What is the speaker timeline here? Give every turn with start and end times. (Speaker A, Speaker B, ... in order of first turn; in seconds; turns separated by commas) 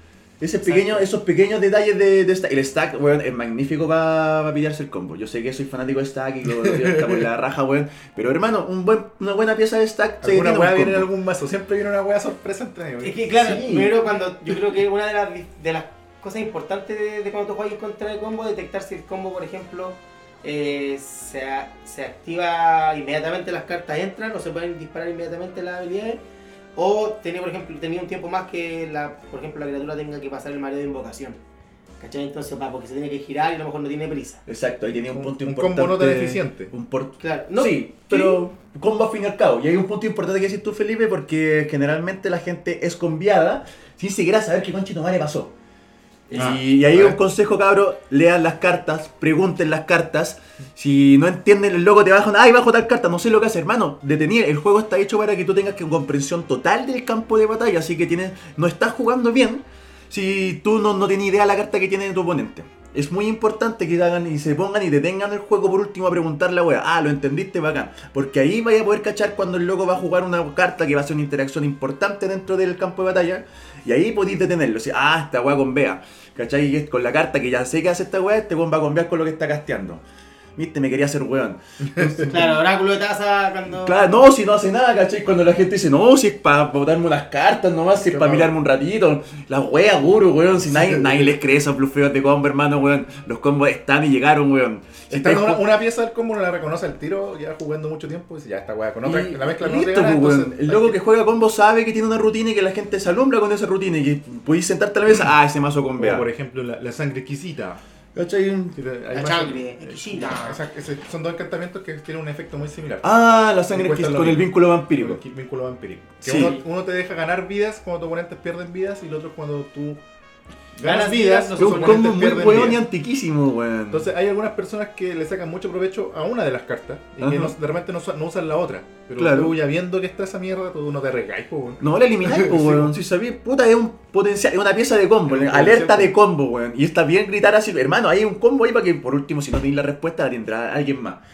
Speaker A: 0.4-11.1, Speaker B: 0.7-1.1, Speaker C: 6.5-7.3, Speaker C: 10.2-13.2, Speaker B: 13.0-26.2, Speaker A: 13.4-13.9, Speaker B: 26.8-31.4, Speaker B: 32.0-34.4, Speaker A: 34.5-45.5, Speaker C: 35.1-36.7, Speaker B: 37.2-38.4, Speaker B: 46.3-46.6, Speaker A: 46.3-80.0, Speaker C: 46.3-47.2, Speaker A: 80.6-82.5, Speaker C: 81.8-82.4, Speaker B: 82.3-84.2, Speaker A: 83.8-95.6, Speaker C: 88.1-88.5, Speaker C: 90.6-91.4, Speaker C: 95.1-101.0, Speaker A: 99.0-106.3, Speaker C: 106.0-107.8, Speaker A: 108.2-108.8, Speaker C: 108.8-113.1, Speaker B: 109.1-110.6, Speaker A: 113.0-115.2, Speaker C: 113.7-120.0, Speaker A: 116.2-116.6, Speaker B: 116.4-116.6, Speaker C: 120.8-122.8, Speaker B: 120.8-122.3, Speaker A: 121.6-124.1, Speaker C: 123.9-132.9, Speaker A: 127.2-127.5, Speaker A: 129.2-129.6, Speaker A: 131.8-141.2, Speaker C: 135.3-136.2